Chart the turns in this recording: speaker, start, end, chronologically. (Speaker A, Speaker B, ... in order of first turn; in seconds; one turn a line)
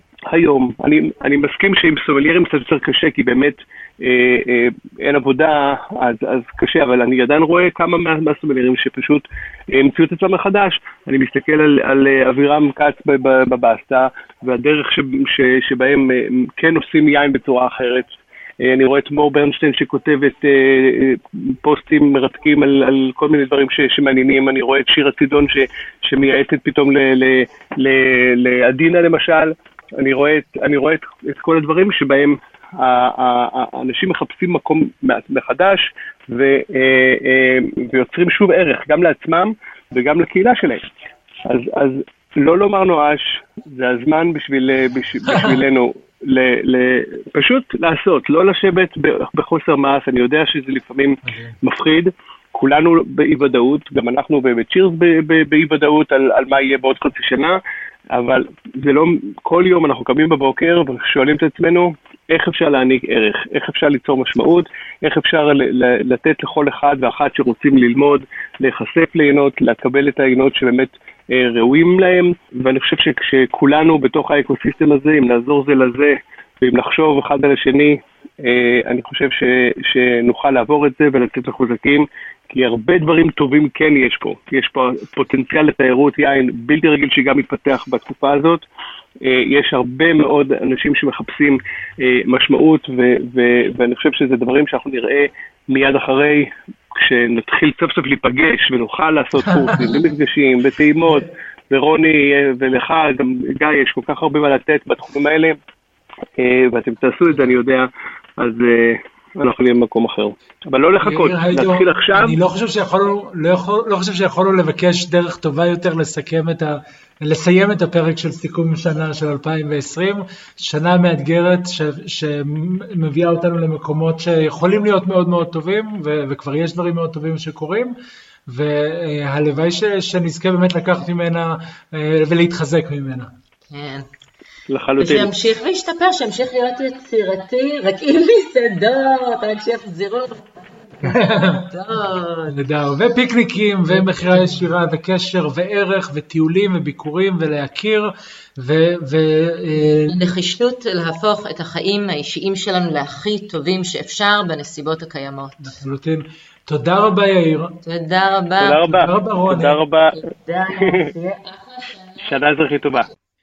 Speaker A: 0.3-40.9
Speaker A: 41.5-57.6
Speaker B: 51.3-51.5
Speaker A: 58.1-88.7
Speaker A: 89.2-105.6
Speaker A: 106.4-112.4
Speaker B: 111.0-128.0
Speaker B: 128.5-133.3
Speaker C: 133.7-134.1
Speaker A: 134.7-135.3
Speaker C: 135.0-140.5
Speaker C: 141.0-142.6
Speaker B: 141.0-141.7
Speaker B: 142.5-150.1
Speaker C: 143.9-144.7
Speaker C: 150.1-155.8
Speaker B: 155.6-157.8
Speaker C: 157.8-158.8
Speaker A: 158.6-160.2
Speaker B: 158.9-159.8
Speaker C: 160.1-162.3
Speaker A: 160.8-161.1
Speaker A: 162.2-163.1